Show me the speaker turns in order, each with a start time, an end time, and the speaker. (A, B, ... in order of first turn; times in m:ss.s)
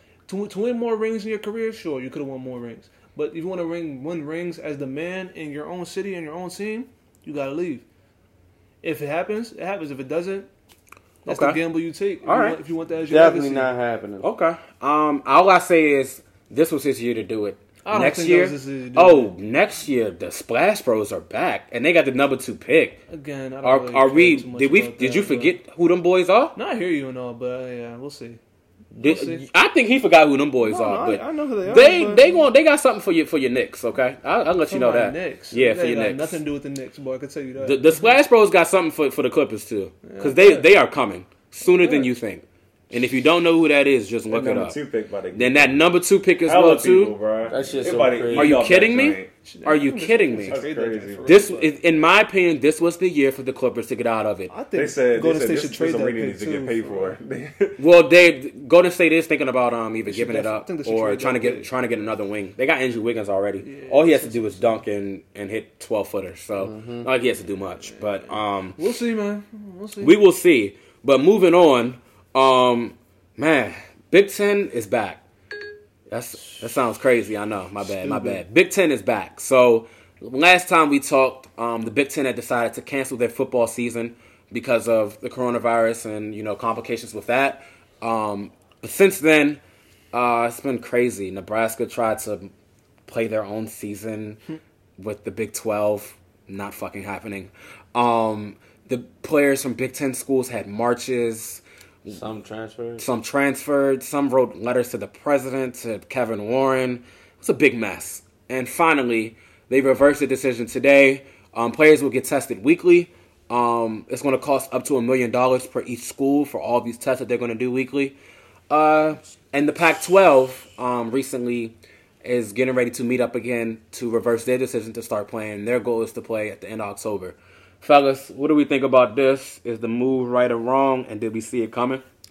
0:00.3-0:07.8 A
0:08.8-0:10.5 A
0:11.3-0:11.6 B
0:11.3-0:13.8 A
0:12.2-0:12.6 B
0:13.1-0:14.3 C
0:14.2-0:23.0 B
0:17.8-0:19.3 A
0:23.1-0:25.6 A
0:23.6-0:26.6 B
0:26.6-0:28.4 A
0:28.9-0:36.4 B
0:29.0-0:29.4 A
0:30.6-0:32.4 A
0:34.7-0:38.1 A
0:37.6-0:44.8 B
0:40.0-0:40.7 A
0:41.6-0:42.1 A
0:44.3-0:45.8 D
0:45.3-0:47.2 B
0:46.4-0:49.3 D
0:47.5-0:48.6 C
0:48.3-0:50.6 B
0:49.5-0:51.7 A
0:50.4-0:51.5 D
0:51.2-0:54.5 B
0:54.5-0:57.2 A
0:54.7-0:57.8 D
0:57.8-1:08.8 B
1:00.1-1:01.7 A
1:03.6-1:04.8 A
1:06.6-1:07.1 C
1:07.9-1:10.1 A
1:10.0-1:15.2 B
1:16.1-1:29.6 B
1:17.8-1:18.4 A
1:30.1-1:32.5 B
1:33.1-1:34.4 B
1:35.0-1:42.2 B
1:42.1-1:43.0 C
1:43.0-1:58.2 B
1:58.7-2:12.0 B